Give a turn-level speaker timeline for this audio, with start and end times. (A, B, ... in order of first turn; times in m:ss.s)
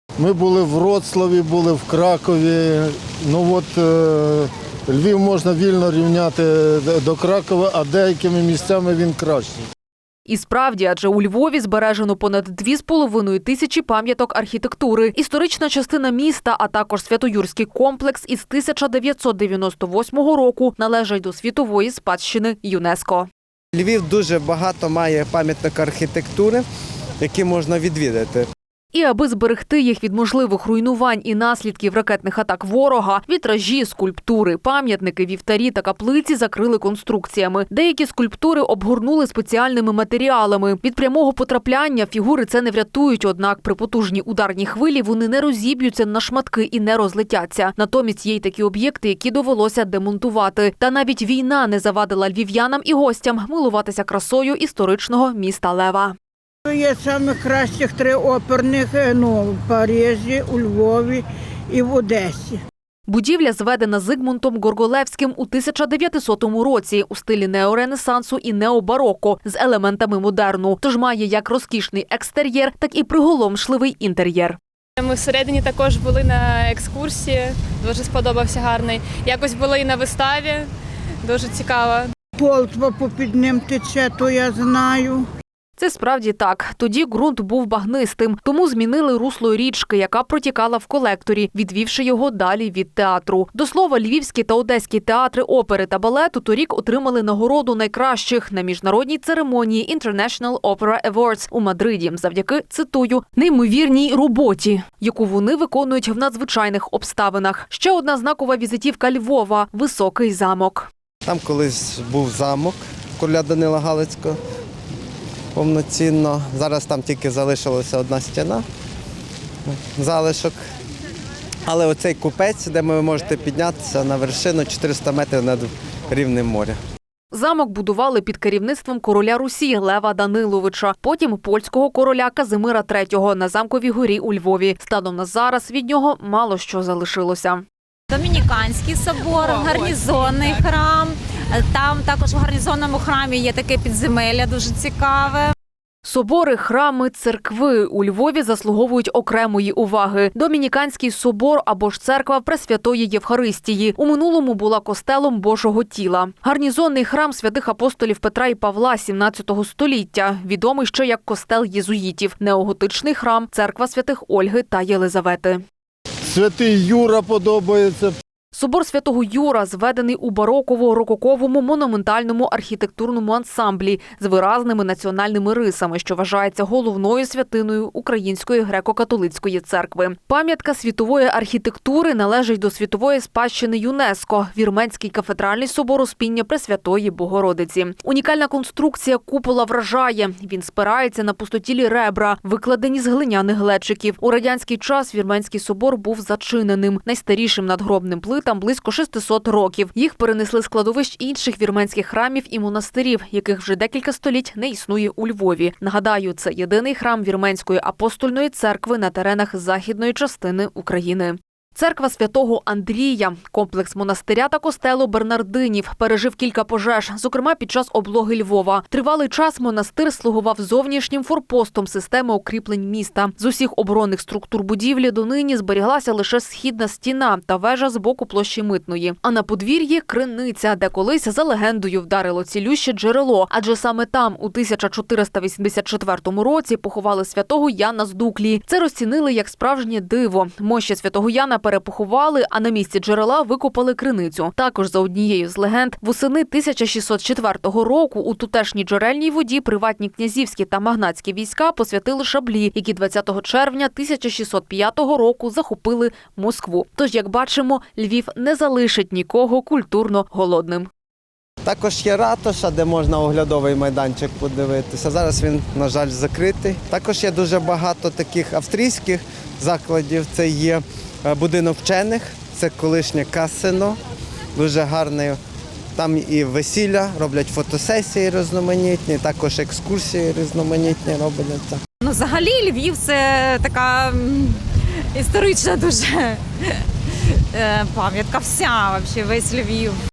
0:00.2-0:09.6 A
0:10.3-0:23.3 B
0:23.7-0:26.6 C
0:27.2-0:28.5 C
0:28.9-0:56.1 B
0:56.7-1:02.6 D
1:03.1-1:14.6 B
1:15.0-1:20.6 E
1:21.2-1:22.0 E
1:22.4-1:25.2 D
1:25.8-1:50.9 B
1:51.2-1:54.4 C
1:55.5-1:58.6 C
1:59.7-2:00.6 C
2:01.6-2:06.8 C
2:07.3-2:17.6 B
2:18.1-2:25.5 F
2:26.0-2:45.6 B
2:46.3-2:48.1 A
2:48.5-4:20.9 B
4:21.6-4:34.0 C
4:34.6-4:35.4 C
4:36.0-4:41.8 C
4:42.0-4:50.0 F